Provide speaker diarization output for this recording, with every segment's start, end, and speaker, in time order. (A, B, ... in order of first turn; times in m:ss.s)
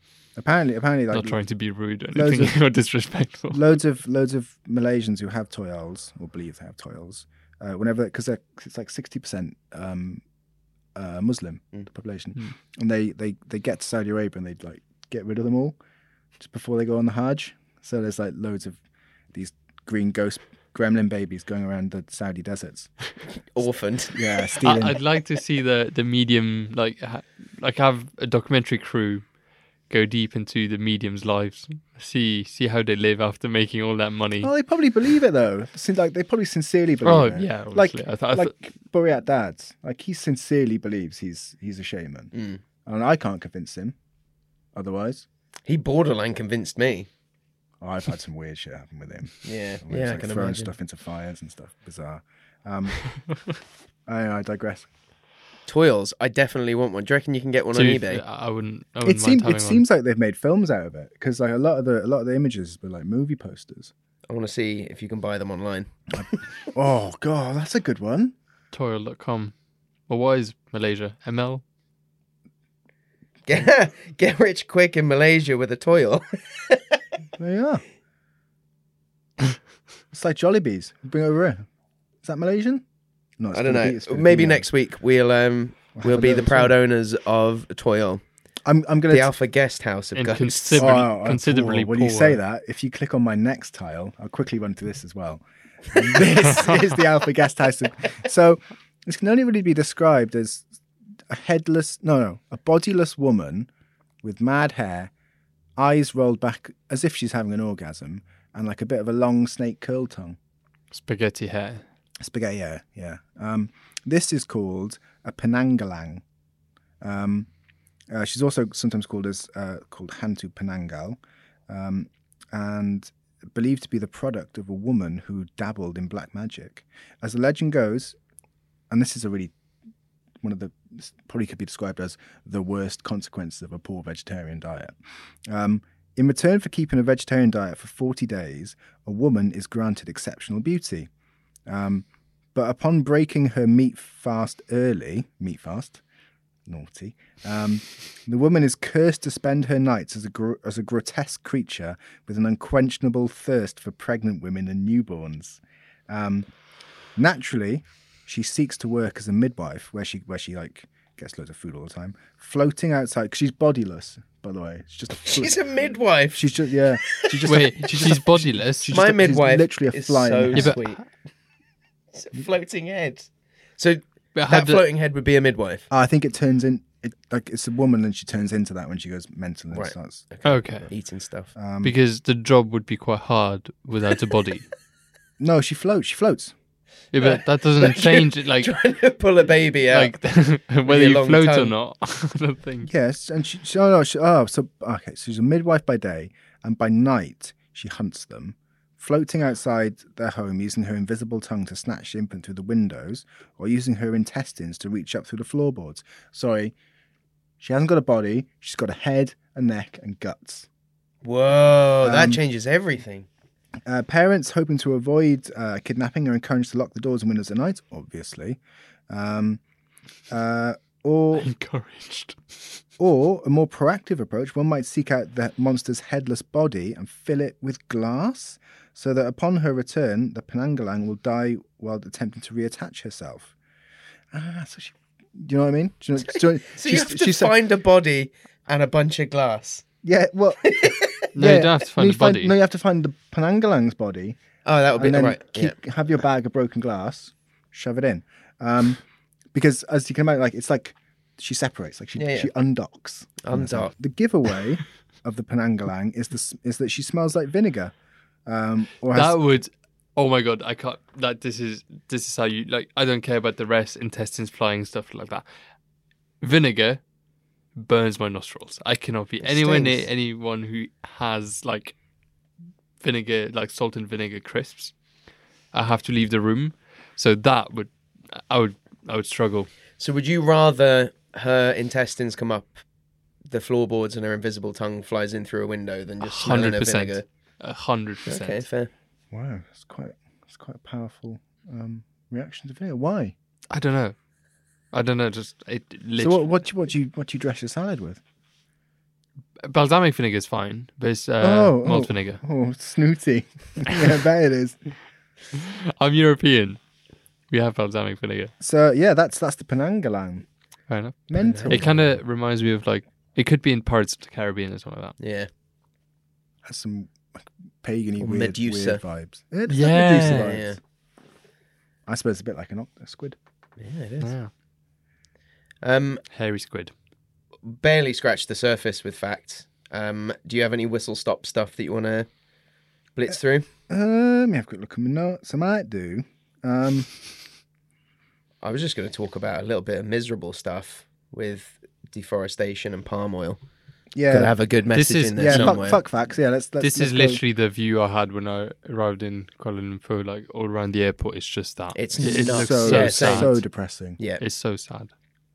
0:00.4-0:01.4 A
0:01.1-0:03.6 B
0:02.1-0:02.6 A
0:03.5-0:10.2 A
0:11.0-0:15.8 A
0:16.4-0:18.8 A
0:19.3-0:22.9 A
0:23.5-0:24.5 C
0:24.1-0:25.0 A
0:24.6-0:29.2 B
0:29.9-0:34.5 B
0:34.4-0:42.3 A
0:37.0-0:38.5 B
0:42.3-0:42.6 C
0:42.8-0:44.0 A
0:44.8-0:45.3 A
0:45.7-0:47.1 C
0:47.8-0:53.0 A
0:49.4-0:50.7 C
0:54.1-0:54.9 A
0:55.7-0:58.2 C
0:57.7-0:59.8 B
0:59.0-1:03.9 A
1:04.3-1:05.9 C
1:06.2-1:08.3 A
1:08.7-1:09.5 B
1:10.1-1:11.6 B
1:13.5-1:17.0 C
1:17.4-1:17.8 A
1:20.1-1:21.6 A
1:22.2-1:22.8 A
1:23.4-1:24.6 A
1:23.5-1:28.2 C
1:26.0-1:26.8 A
1:28.7-1:29.3 A
1:29.1-1:31.0 C
1:30.2-1:32.4 B
1:30.8-1:35.4 A
1:35.9-1:40.7 A
1:41.3-1:43.7 A
1:44.2-1:45.1 A
1:45.8-1:50.4 A
1:50.9-1:51.8 B
1:52.2-1:56.2 A
1:57.0-1:57.5 A
1:58.1-2:08.2 A
2:08.9-2:09.5 A
2:10.4-2:14.9 A
2:15.5-2:21.1 A
2:21.7-2:26.0 A
2:26.7-2:36.5 A
2:37.2-2:45.6 A
2:45.2-2:47.4 C
2:46.3-2:50.8 A
2:47.5-2:49.0 B
2:48.9-2:51.0 C
2:50.6-2:50.9 B
2:52.1-2:55.9 C
2:54.4-2:54.8 B
2:55.9-3:00.2 A
2:59.7-3:01.5 C
3:00.4-3:00.9 B
3:01.6-3:01.9 A
3:01.8-3:04.7 B
3:05.4-3:06.5 A
3:07.1-3:08.7 B
3:07.2-3:10.2 C
3:09.9-3:12.9 B
3:10.8-3:11.7 C
3:12.8-3:26.7 A
3:27.6-3:30.7 A
3:31.2-3:33.3 C
3:32.0-3:32.4 A
3:33.9-3:39.6 A
3:40.3-3:41.5 A
3:41.4-3:42.4 B
3:43.0-3:53.5 A
3:54.3-3:57.6 A
3:56.3-3:59.8 C
4:00.0-4:00.7 A
4:00.6-4:01.3 C
4:01.2-4:04.4 A
4:01.4-4:02.6 B
4:04.6-4:05.8 C
4:05.0-4:09.0 A
4:09.5-4:17.9 A
4:12.2-4:12.5 C
4:13.4-4:14.0 C
4:18.5-4:19.4 A
4:19.1-4:25.4 B
4:26.4-4:27.0 B
4:27.8-4:32.0 B
4:29.5-4:29.8 A
4:29.6-4:30.0 C
4:33.0-4:34.9 B
4:35.7-4:39.7 B
4:40.0-4:42.8 C
4:43.4-4:47.2 C
4:46.2-4:48.6 B
4:48.3-4:48.9 C
4:49.3-4:53.4 A
4:53.7-4:54.2 B
4:54.9-4:56.5 B
4:56.2-4:58.2 A
4:59.6-5:02.4 B
5:01.4-5:04.8 A
5:05.5-5:06.8 B
5:07.5-5:08.5 B
5:08.6-5:10.5 A
5:10.9-5:15.2 B
5:11.3-5:12.2 A
5:11.4-5:11.8 C
5:15.2-5:15.5 C
5:16.6-5:20.8 A
5:18.2-5:19.0 C
5:19.7-5:20.6 B
5:20.3-5:20.8 C
5:22.1-5:23.4 A
5:23.8-5:24.3 C
5:24.2-5:24.5 B
5:25.8-5:26.2 C
5:26.3-5:26.9 B
5:27.6-5:32.3 C
5:33.2-5:33.7 C
5:33.9-5:37.1 A
5:38.6-5:43.6 C
5:44.1-5:44.5 A
5:44.3-5:46.0 C
5:44.9-5:46.0 B
5:45.4-5:47.4 A
5:46.8-5:53.6 B
5:52.0-5:53.6 C
5:52.2-5:54.2 A
5:54.4-5:55.1 B